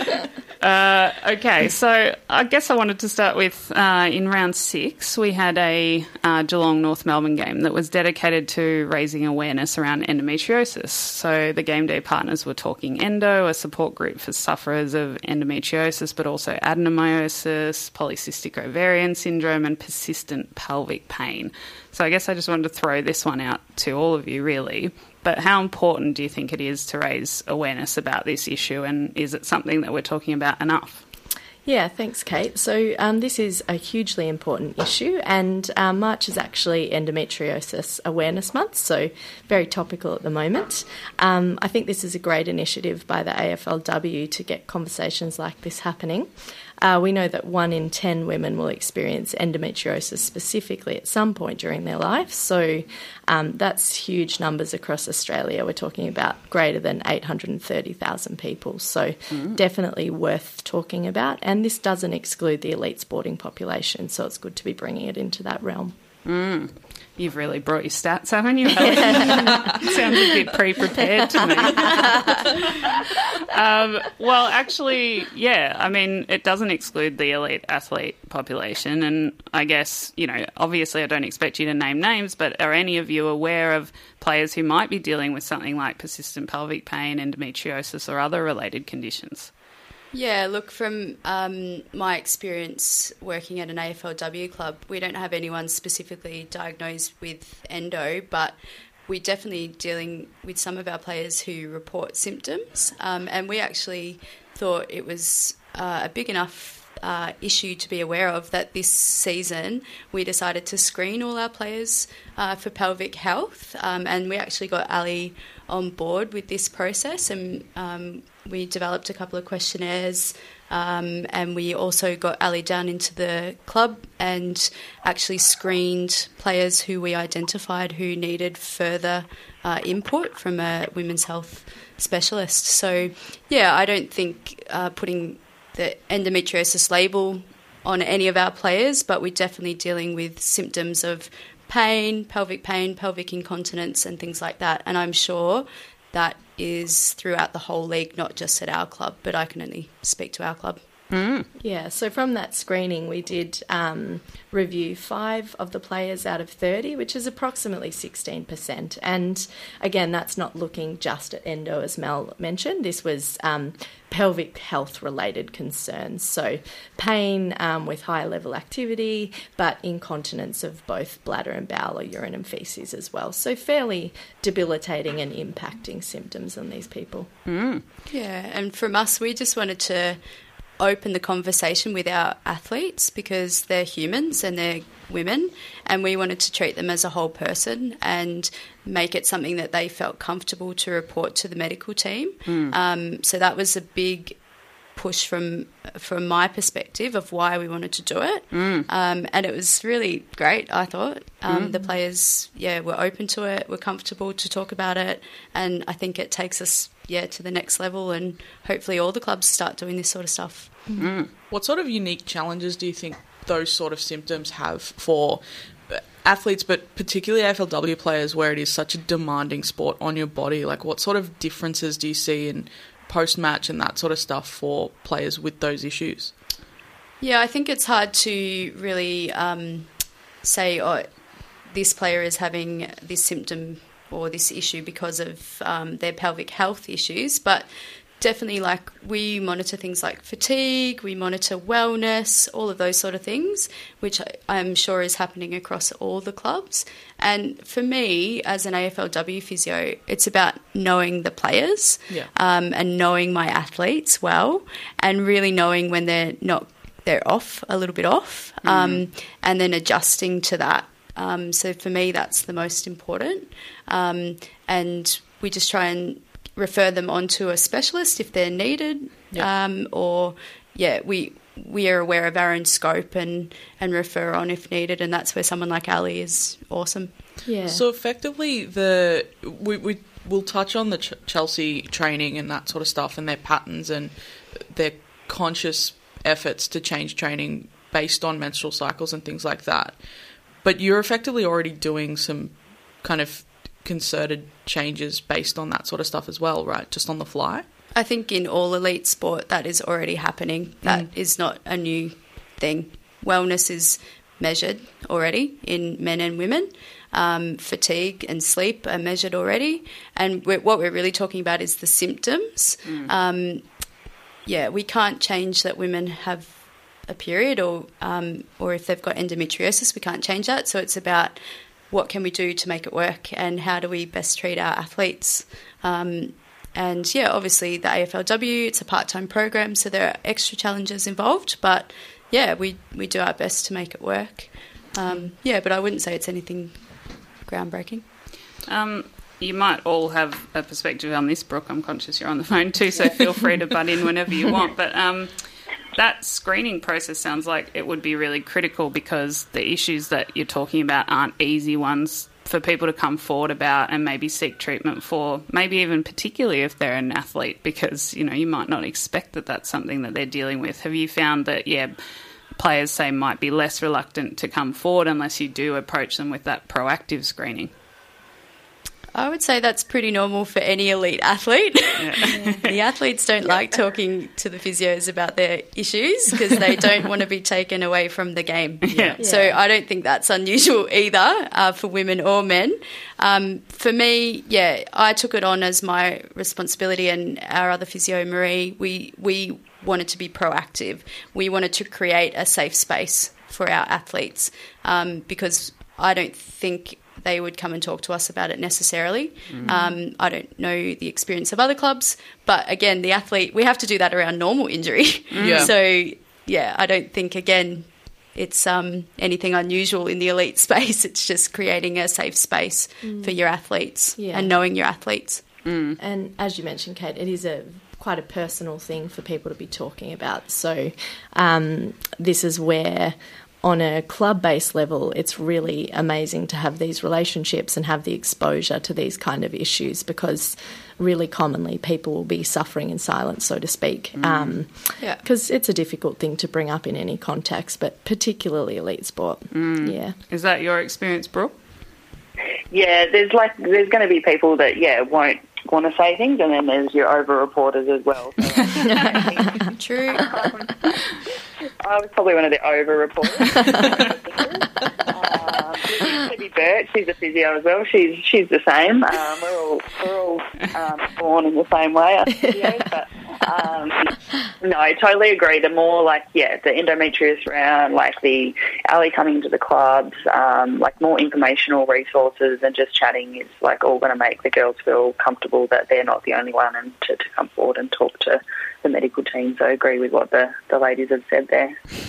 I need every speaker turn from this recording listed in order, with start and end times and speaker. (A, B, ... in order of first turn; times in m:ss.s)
0:00.6-0:31.0 A
0:31.6-0:46.3 B
0:46.8-1:06.0 B
0:59.3-0:59.6 A
1:06.2-1:12.6 A
1:08.8-1:09.5 B
1:13.3-1:29.5 A
1:30.1-2:30.8 C
2:31.1-2:31.5 A
2:31.6-2:57.3 B
2:57.5-2:57.8 A
2:58.1-3:31.0 C
3:12.5-3:12.7 A
3:18.5-3:18.9 A
3:21.5-3:21.8 A
3:31.0-3:31.3 A
3:31.4-3:46.4 D
3:47.2-4:37.6 C
4:18.7-4:19.0 D
4:37.4-4:37.8 B
4:37.6-4:57.7 D
4:57.9-5:38.1 C
5:00.8-5:01.1 D
5:38.6-6:02.0 A
6:02.5-6:07.7 A
6:09.1-6:55.6 C
6:12.0-6:12.6 A
6:18.9-6:19.2 A
6:18.9-6:19.2 D
6:19.2-6:19.6 B
6:39.7-6:39.9 B
6:45.3-6:45.7 A
6:45.4-6:45.8 D
6:53.0-6:54.5 B
6:55.6-6:56.0 A
6:56.0-7:20.2 B
7:19.5-7:21.6 A
7:22.7-7:31.0 E
7:29.6-7:30.4 C
7:31.8-8:01.8 E